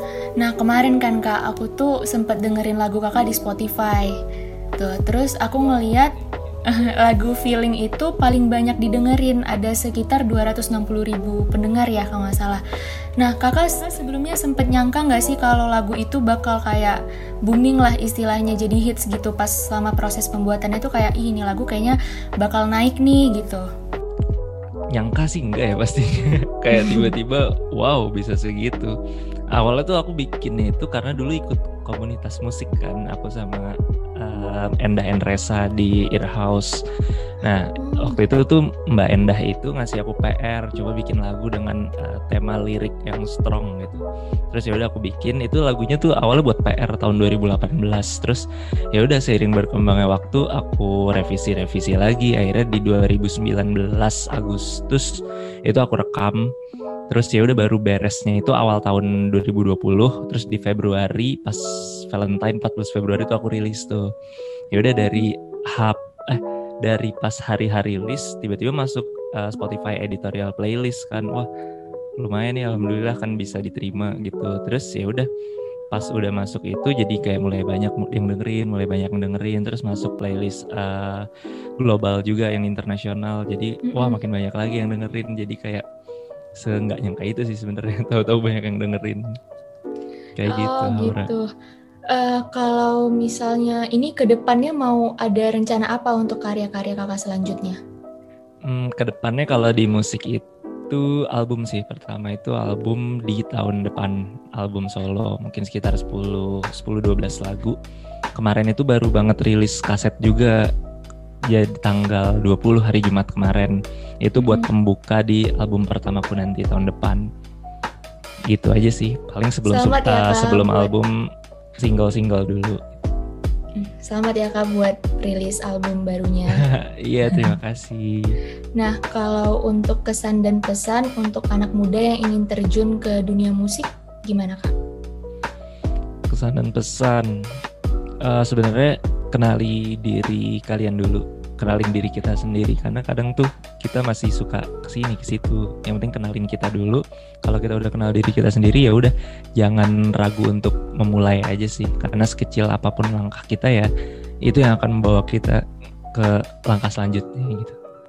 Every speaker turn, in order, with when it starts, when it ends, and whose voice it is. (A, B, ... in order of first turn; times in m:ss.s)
0:00.4-0:04.2 A
0:04.8-0:06.1 A
0:06.7-0:12.6 A
0:13.2-0:23.7 A
0:24.9-0:28.9 B
0:26.7-0:27.1 A
0:29.5-0:36.8 B
0:37.4-0:55.1 B
0:37.8-0:38.2 A
0:55.7-0:56.4 B
0:57.1-1:04.1 B
1:04.7-1:11.5 B
1:12.2-1:15.3 B
1:15.9-1:21.3 B
1:21.8-1:25.8 B
1:23.8-1:24.2 A
1:26.6-1:29.2 B
1:30.4-1:31.3 B
1:30.4-1:31.4 A
1:32.1-1:37.8 A
1:38.6-1:47.8 B
1:48.4-1:50.6 B
1:51.5-1:57.2 B
1:54.4-1:54.7 A
1:58.5-2:01.1 B
1:59.7-2:00.9 A
2:01.8-2:02.8 B
2:03.8-2:06.6 A
2:06.7-2:08.4 B
2:07.3-2:07.6 A
2:08.8-2:14.7 A
2:16.3-2:17.3 B
2:18.2-2:33.9 B
2:34.4-2:35.6 B
2:36.1-2:37.8 B